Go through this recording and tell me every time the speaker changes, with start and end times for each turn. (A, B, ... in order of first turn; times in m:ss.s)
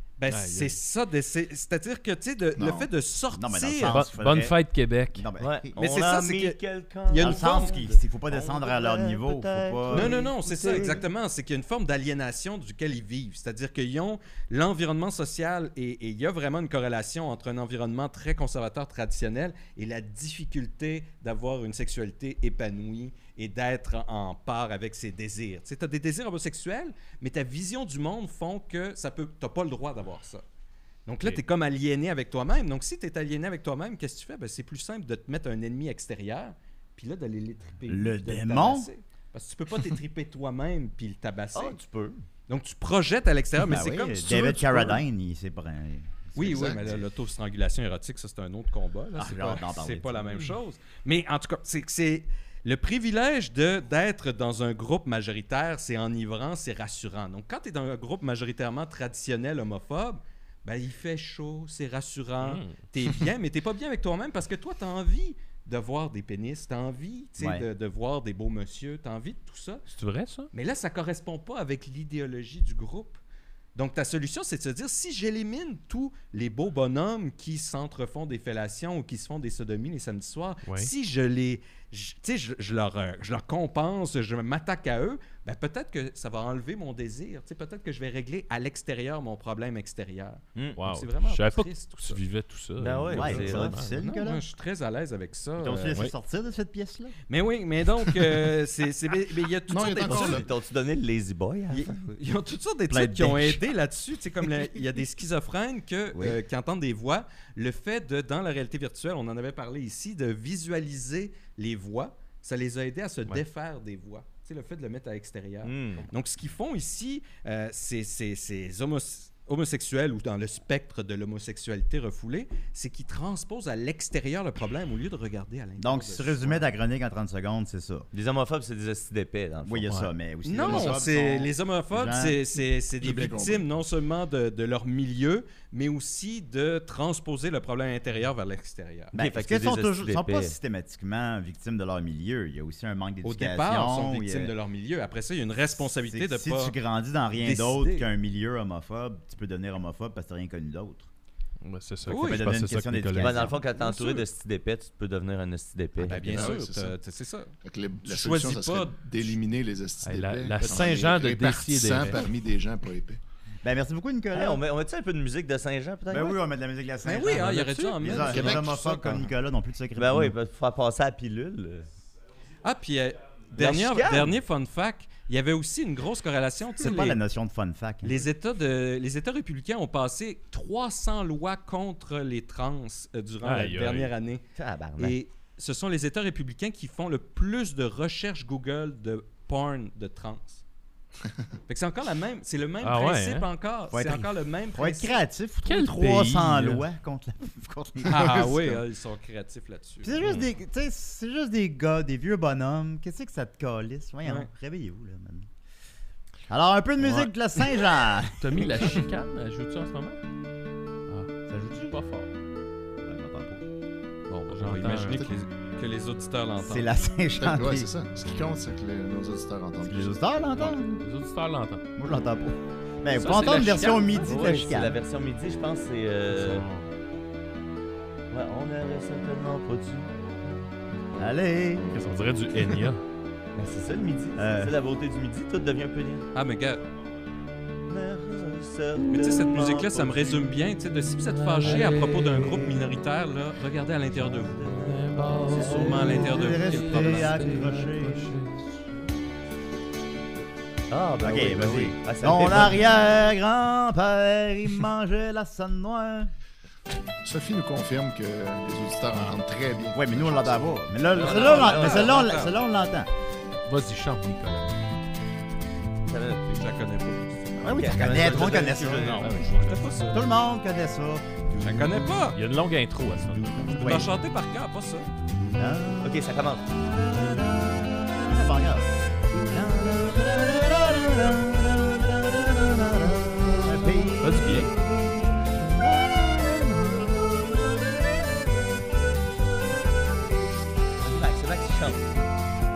0:00.2-0:04.0 A
0:00.3-0:00.8 B
0:02.6-0:02.9 C
0:03.3-0:04.6 D
0:03.9-0:05.3 B
0:05.1-0:05.8 D
0:05.4-0:11.0 E
0:05.8-0:07.7 A
0:07.2-0:10.2 D
0:09.9-0:30.4 A
0:31.0-0:41.8 A
0:37.9-0:38.9 D
0:41.5-0:42.2 E
0:42.5-0:45.0 A
0:43.7-0:46.9 D
0:46.4-1:09.8 A
0:46.4-0:47.0 C
0:49.2-0:50.3 D
1:02.4-1:02.9 B
1:07.4-1:07.6 D
1:09.9-1:10.5 B
1:10.5-1:13.2 A
1:13.7-1:32.2 A
1:30.8-1:34.0 B
1:32.8-1:33.8 E
1:33.1-1:34.4 D
1:34.0-1:36.0 A
1:35.6-1:37.1 D
1:37.3-1:40.4 A
1:39.7-1:40.5 C
1:40.0-1:41.9 E
1:41.7-2:06.7 A
1:42.9-1:43.6 D
1:55.6-1:56.1 E
2:05.8-2:08.1 D
2:08.1-2:09.9 E
2:09.6-2:12.4 D
2:10.4-2:19.1 A
2:13.0-2:13.6 C
2:19.1-2:20.6 E
2:19.1-2:24.5 D
2:23.2-2:26.7 A
2:25.8-2:31.1 D
2:27.4-2:28.1 A
2:31.6-2:33.5 B
2:32.1-2:32.4 A
2:32.1-2:33.6 D
2:33.2-2:36.5 E
2:33.7-2:34.2 A
2:36.0-2:37.5 A
2:36.2-2:37.0 C
2:37.6-2:43.2 C
2:38.0-2:39.3 A
2:40.0-2:42.3 B
2:43.6-2:44.6 D
2:44.3-2:46.4 E
2:46.1-2:50.4 D
2:47.0-2:49.3 A
2:47.3-2:48.0 B
2:48.1-2:48.8 C
2:50.0-2:51.9 E
2:52.6-2:57.2 A
2:53.6-2:54.3 E
2:56.8-2:58.3 D
2:58.0-3:04.4 A
3:03.4-3:04.1 B
3:04.6-3:05.2 E
3:05.0-3:10.6 A
3:11.7-3:15.2 A
3:12.8-3:13.5 B
3:13.9-3:18.8 D
3:15.6-3:16.9 B
3:18.0-3:20.2 A
3:20.0-3:25.5 D
3:20.2-3:20.5 B
3:24.2-3:24.5 A
3:26.5-3:29.0 D
3:27.0-3:27.3 B
3:28.4-3:30.2 B
3:31.1-3:32.3 B
3:31.5-3:32.0 D
3:33.0-3:33.6 D
3:34.3-3:36.9 A
3:34.5-3:35.3 B
3:36.6-3:37.9 D
3:37.4-3:40.2 C
3:39.8-3:41.0 D
3:40.5-3:41.8 B
3:42.0-3:45.0 D
3:43.2-3:44.5 B
3:44.2-3:46.6 E
3:46.4-3:46.8 B
3:48.3-3:50.6 E
3:51.2-3:51.9 D
3:51.9-3:53.0 B
3:53.6-3:56.3 E
3:54.4-3:54.8 D
3:56.3-3:56.8 A
3:57.9-4:00.4 E
3:59.1-4:04.8 A
4:01.2-4:02.7 B
4:04.5-4:06.1 E
4:04.7-4:08.8 B
4:05.4-4:07.6 A
4:05.6-4:08.4 D
4:10.9-4:13.0 E
4:11.2-4:16.3 D
4:17.2-4:20.8 C
4:19.9-4:23.1 D
4:21.1-4:22.4 E
4:21.1-4:22.5 A
4:23.6-4:24.8 B
4:26.0-4:26.6 E
4:26.5-4:30.2 A
4:27.6-4:29.2 D
4:27.6-4:29.2 E
4:29.0-4:29.8 B
4:30.1-4:32.0 D
4:31.6-4:32.4 A
4:32.3-4:34.1 B
4:33.4-4:34.1 D
4:33.8-4:35.1 A
4:35.4-4:36.1 D
4:36.0-4:36.7 E
4:36.8-4:41.6 D
4:39.6-4:48.5 E
4:43.6-4:44.7 D
4:44.2-4:44.7 B
4:51.0-4:52.1 E